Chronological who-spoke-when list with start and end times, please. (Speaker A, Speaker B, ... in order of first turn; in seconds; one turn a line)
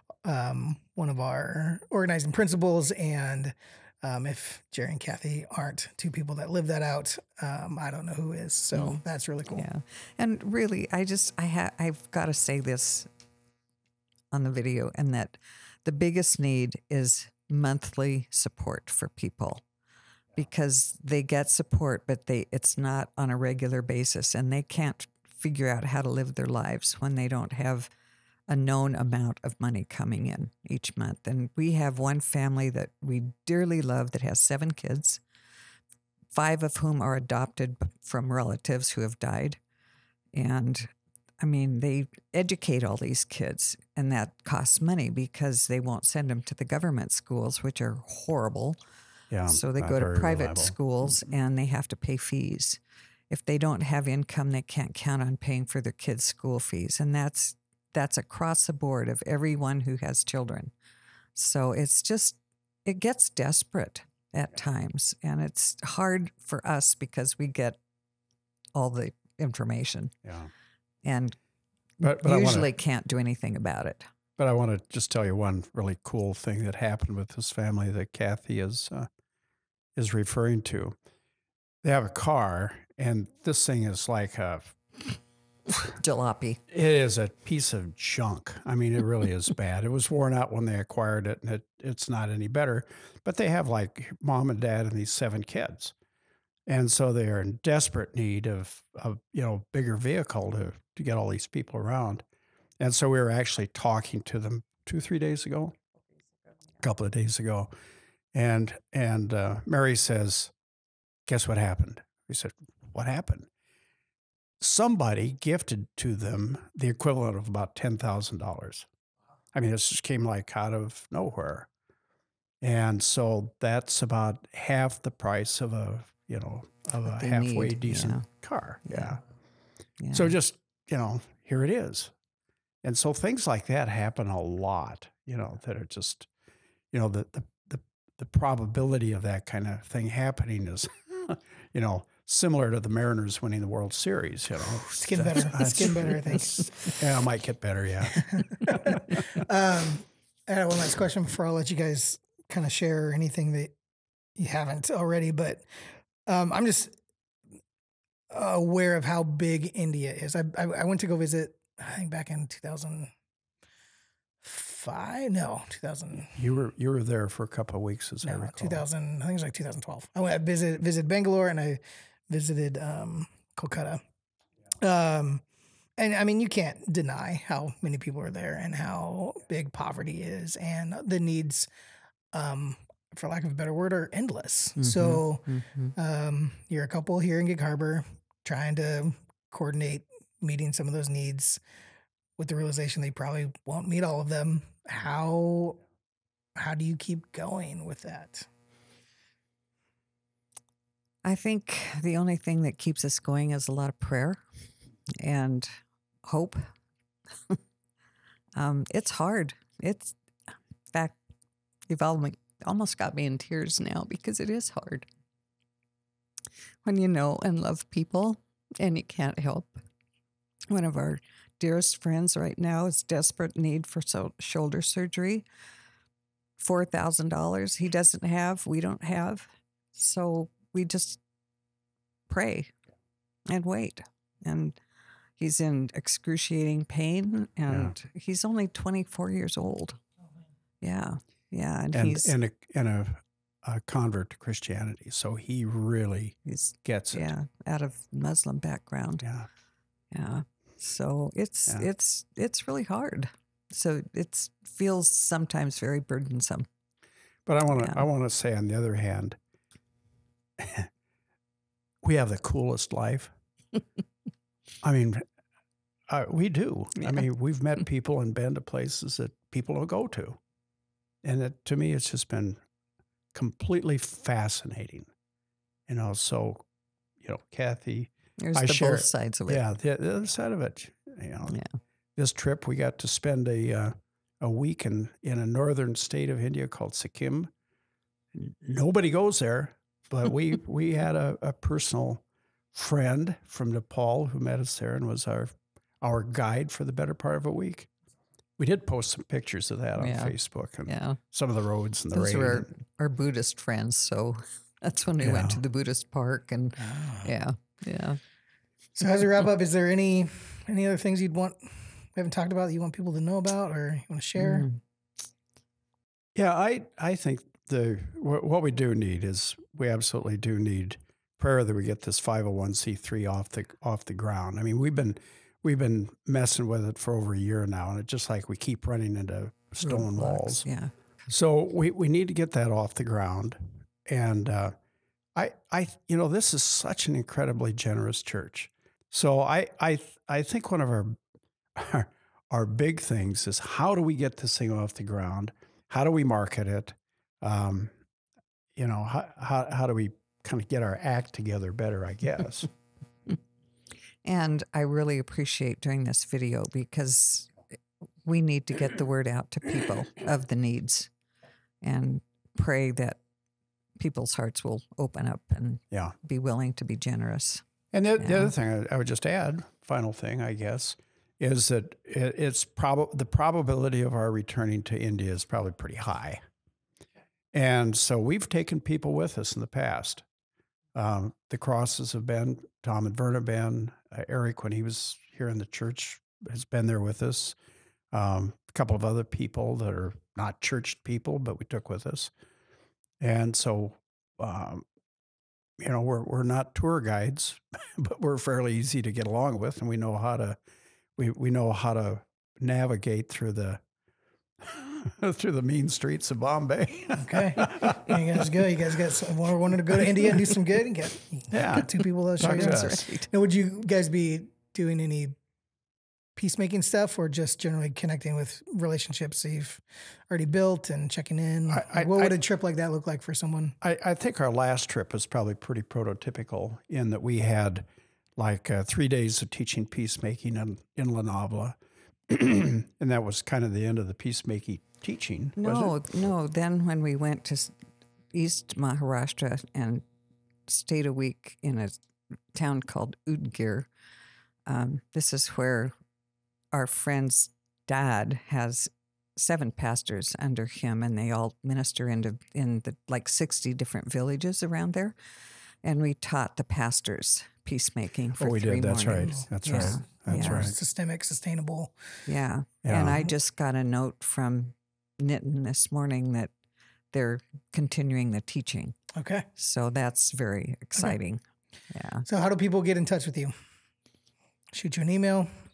Speaker A: 0.2-9.7
Speaker B: 8.7-13.1
Speaker B: 14.3-19.6
Speaker B: 20.4-27.9
Speaker B: 28.5-35.2
Speaker B: 36.3-39.6
Speaker B: 40.3-48.8
Speaker C: 49.3-51.1
Speaker B: 49.5-60.7
Speaker B: 61.4-67.8
Speaker B: 68.8-70.2
Speaker C: 70.2-70.5
Speaker B: 71.0-71.4
Speaker C: 72.0-72.7
Speaker B: 72.2-74.1
Speaker C: 74.4-79.1
Speaker C: 80.0-81.0
Speaker C: 81.8-85.0
Speaker B: 86.0-86.6
Speaker C: 86.7-95.9
Speaker C: 96.7-102.2
Speaker C: 102.8-105.8
Speaker C: 106.8-107.7
Speaker C: 108.3-110.5
Speaker C: 111.3-113.5
Speaker C: 114.6-118.9
Speaker C: 119.5-121.7
Speaker C: 122.6-129.2
Speaker B: 127.1-128.2
Speaker B: 130.0-130.3
Speaker C: 130.1-132.1
Speaker C: 132.8-136.3
Speaker C: 136.9-146.2
Speaker A: 145.0-146.9
Speaker C: 147.0-148.3
Speaker A: 148.2-153.7
Speaker A: 154.4-155.7
Speaker A: 156.3-156.9
Speaker A: 158.3-163.1
Speaker A: 164.4-166.4
Speaker C: 166.3-168.8
Speaker A: 168.2-174.0
Speaker A: 174.8-175.4
Speaker A: 176.0-181.7
Speaker A: 182.3-191.6
Speaker B: 184.8-185.9
Speaker A: 192.4-195.8
Speaker A: 196.6-198.5
Speaker B: 201.2-204.4
Speaker B: 205.2-205.7
Speaker B: 206.3-206.7
Speaker B: 208.6-210.2
Speaker B: 210.9-211.2
Speaker B: 211.9-215.1
Speaker B: 216.8-219.8
Speaker B: 220.7-225.4
Speaker B: 226.6-231.2
Speaker B: 232.3-232.7
Speaker B: 233.5-234.8
Speaker B: 235.4-240.0
Speaker C: 237.7-237.9
Speaker B: 240.8-242.3
Speaker C: 241.9-247.3
Speaker B: 246.5-249.2
Speaker C: 249.2-249.5
Speaker B: 250.1-256.7
Speaker C: 257.5-259.4
Speaker B: 257.7-258.0
Speaker C: 260.6-260.9
Speaker C: 262.0-263.3
Speaker C: 264.8-265.3
Speaker C: 266.1-270.4
Speaker C: 271.2-272.6
Speaker C: 273.3-275.1
Speaker C: 275.9-276.6
Speaker C: 277.2-281.6
Speaker B: 278.4-279.6
Speaker C: 282.2-287.5
Speaker C: 288.3-297.9
Speaker C: 298.6-302.7
Speaker B: 300.0-301.2
Speaker B: 302.1-308.2
Speaker C: 305.2-305.6
Speaker A: 306.8-307.3
Speaker A: 309.0-314.7
Speaker B: 314.4-314.8
Speaker C: 316.4-330.7
Speaker B: 329.8-330.9
Speaker C: 331.3-334.8
Speaker C: 335.4-341.2
Speaker C: 341.8-347.9
Speaker C: 348.8-352.7
Speaker B: 354.2-357.5
Speaker B: 358.2-361.1
Speaker B: 361.8-363.2
Speaker B: 364.0-367.6
Speaker C: 367.9-376.4
Speaker B: 368.2-368.5
Speaker C: 377.5-380.2
Speaker C: 380.9-387.6
Speaker C: 388.1-392.3
Speaker C: 393.2-394.9
Speaker C: 395.8-400.6
Speaker C: 401.2-403.8
Speaker C: 404.6-408.8
Speaker A: 407.1-415.4
Speaker C: 411.5-413.0
Speaker B: 412.4-413.3
Speaker A: 416.4-423.8
Speaker C: 421.7-422.4
Speaker C: 423.8-427.9
Speaker C: 428.4-436.0
Speaker B: 435.6-437.7
Speaker B: 438.3-440.0
Speaker B: 440.7-441.9
Speaker B: 442.5-443.9
Speaker B: 444.7-445.9
Speaker B: 446.7-455.1
Speaker B: 455.8-460.7
Speaker C: 458.4-460.7
Speaker A: 459.3-461.9
Speaker B: 462.3-466.5
Speaker C: 462.8-463.3
Speaker B: 467.1-469.0
Speaker A: 469.1-469.5
Speaker B: 469.6-472.2
Speaker A: 472.3-473.5
Speaker A: 474.7-475.5